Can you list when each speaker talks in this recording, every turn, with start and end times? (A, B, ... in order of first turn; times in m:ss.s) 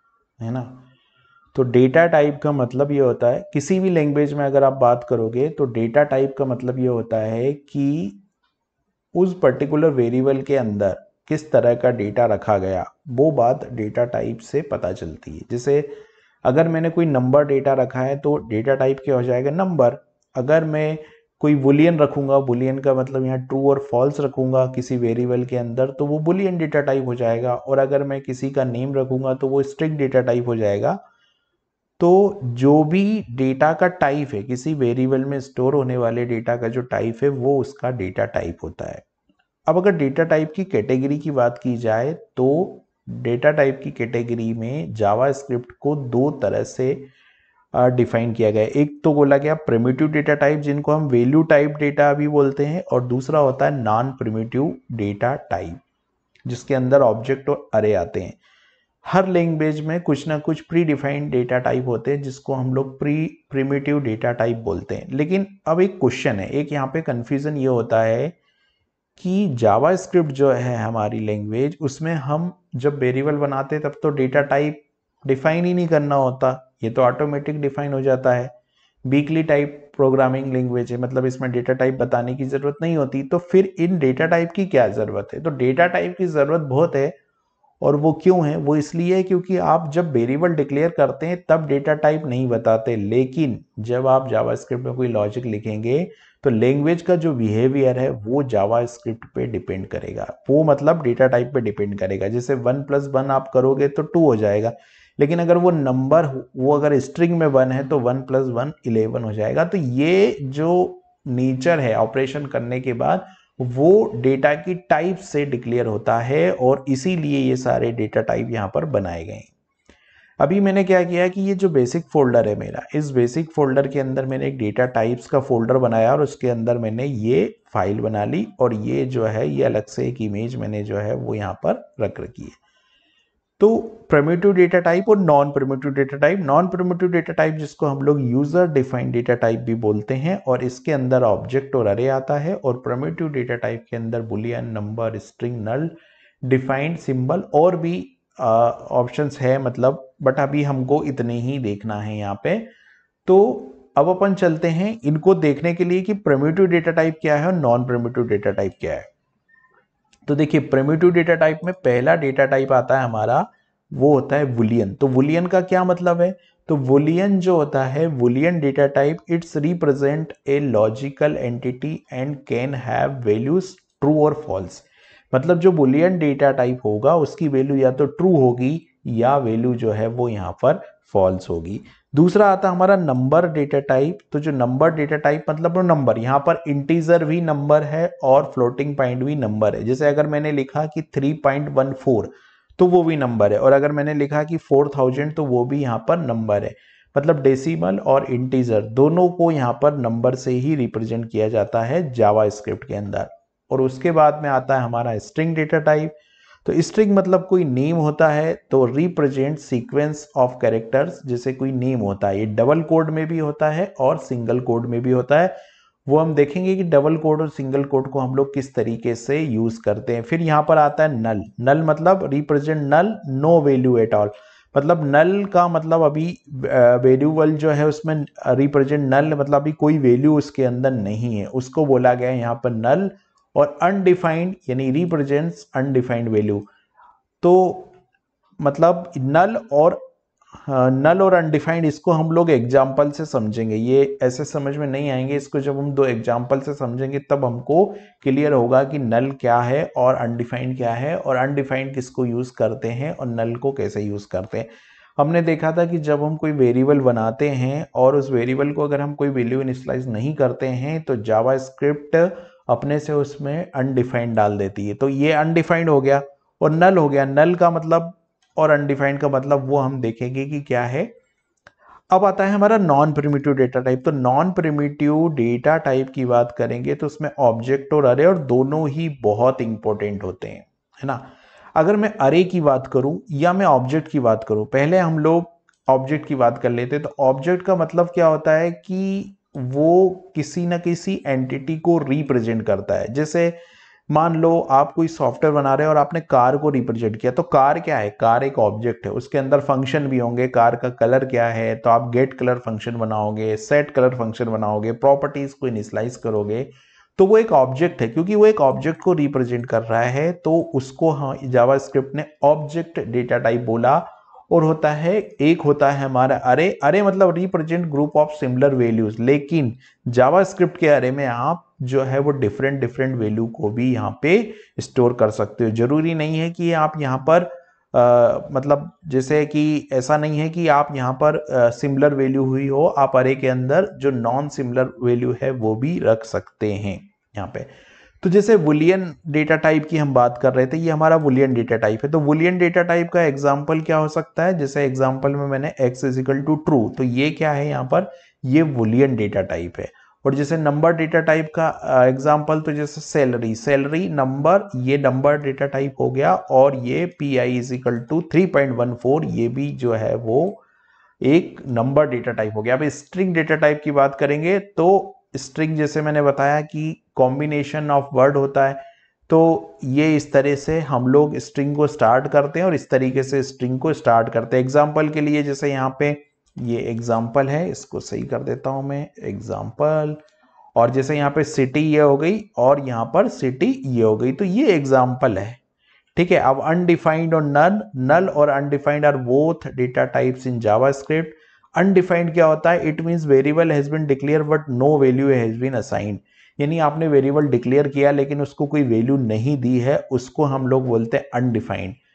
0:00.4-0:00.8 A
0:01.5-0:08.2 A
0:09.1-0:31.0 A
0:32.0-0:39.0 A
0:39.7-0:47.1 A
0:47.7-0:55.8 A
0:56.4-0:58.4 A
0:59.0-1:08.3 A
1:09.2-1:18.5 A
1:19.0-1:27.2 A
1:27.8-1:59.5 A
2:00.4-2:12.6 A
2:13.6-2:32.7 A
2:33.2-2:39.1 A
2:40.2-3:26.1 A
3:26.6-3:35.5 A
3:36.1-3:56.7 A
3:57.4-3:57.9 A
3:58.6-4:00.0 A
4:00.6-4:31.1 A
4:32.1-4:53.6 A
4:54.1-6:00.6 A
6:01.2-6:20.2 A
6:20.8-6:25.6 A
6:26.2-6:42.0 A